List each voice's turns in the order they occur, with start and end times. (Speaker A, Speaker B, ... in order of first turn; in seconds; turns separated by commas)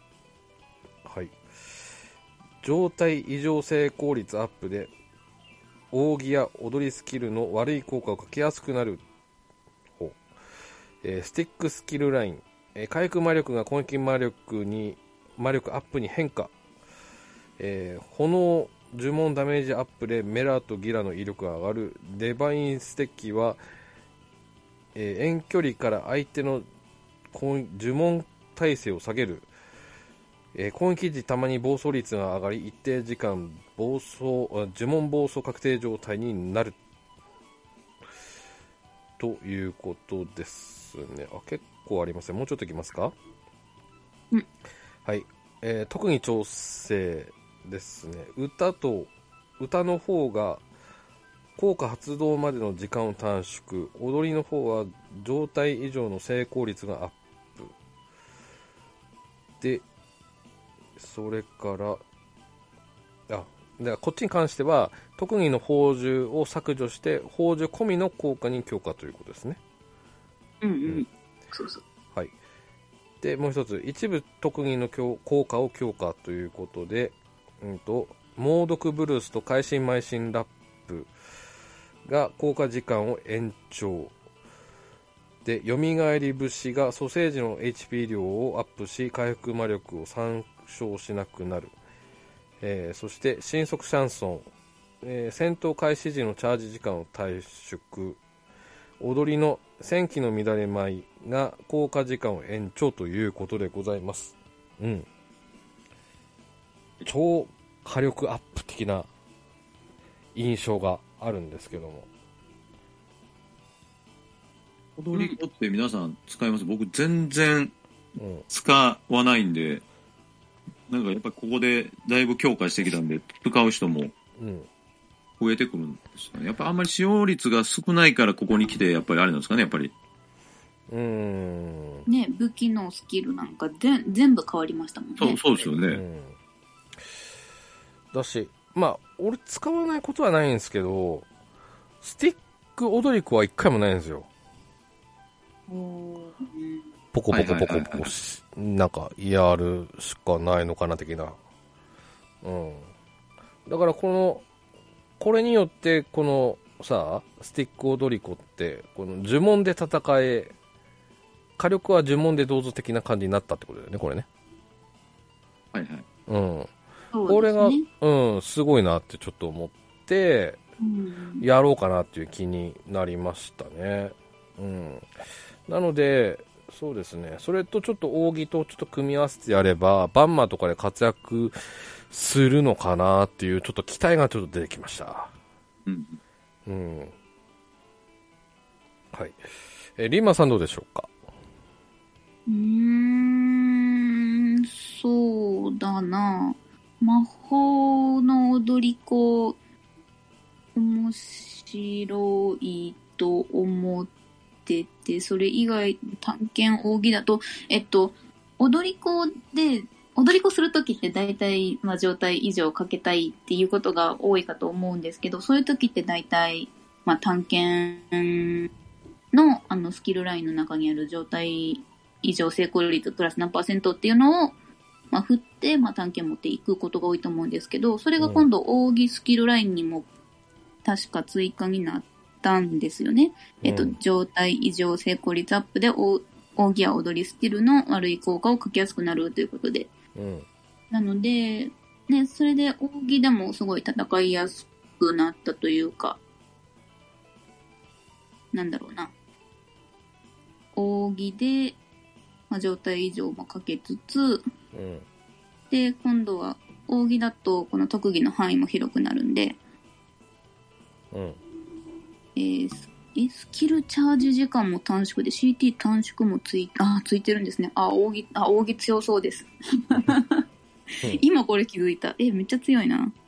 Speaker A: 1.0-1.4, Speaker A: 2.6-4.9, Speaker A: 5.9-9.0, Speaker A: 11.0-16.5, Speaker A: 17.6-23.6, Speaker A: 24.9-26.7, Speaker A: 27.3-29.5, Speaker A: 30.5-36.8, Speaker A: 39.2-43.1, Speaker A: 45.0-50.6, Speaker A: 51.6-57.7, Speaker A: 59.6-59.9, Speaker A: 61.0-62.0, Speaker A: 63.3-69.6, Speaker B: 70.6-71.8, Speaker A: 73.2-81.1, Speaker A: 82.0-84.1, Speaker A: 85.4-91.8, Speaker A: 92.6-94.5, Speaker A: 95.0-98.2, Speaker A: 99.0-105.1, Speaker A: 107.0-109.1, Speaker A: 110.3-112.1, Speaker C: 115.0-117.7, Speaker A: 118.2-118.5, Speaker C: 118.5-119.8, Speaker C: 120.9-124.1, Speaker A: 124.4-124.7, Speaker C: 125.4-129.9, Speaker A: 130.9-132.1, Speaker B: 132.1-135.7, Speaker C: 135.2-136.0, Speaker A: 135.9-136.3, Speaker A: 138.1-141.3, Speaker A: 142.0-144.3, Speaker B: 145.7-146.8, Speaker A: 147.1-151.4, Speaker C: 147.3-148.1, Speaker A: 152.4-152.9, Speaker A: 153.7-154.4, Speaker A: 155.2-160.5, Speaker A: 161.6-164.3, Speaker C: 165.7-166.1, Speaker A: 166.3-166.7, Speaker B: 167.1-167.9, Speaker A: 167.3-170.6, Speaker B: 170.8-171.4, Speaker A: 171.4-175.1, Speaker A: 175.7-181.6, Speaker A: 182.1-185.3, Speaker C: 185.9-186.2, Speaker A: 186.7-187.1, Speaker A: 189.1-189.4, Speaker A: 190.0-191.1, Speaker B: 192.5-199.6, Speaker B: 200.8-204.1, Speaker B: 204.7-218.7, Speaker B: 219.3-224.6, Speaker B: 225.1-230.1, Speaker A: 228.2-228.5, Speaker B: 230.8-239.9, Speaker A: 233.6-234.0, Speaker A: 240.2-240.5, Speaker B: 240.9-246.2, Speaker B: 248.5-249.1, Speaker B: 250.8-251.8, Speaker B: 252.5-254.4, Speaker A: 254.7-255.1, Speaker B: 255.7-259.6, Speaker A: 261.1-261.4, Speaker B: 262.4-270.4, Speaker B: 271.0-273.1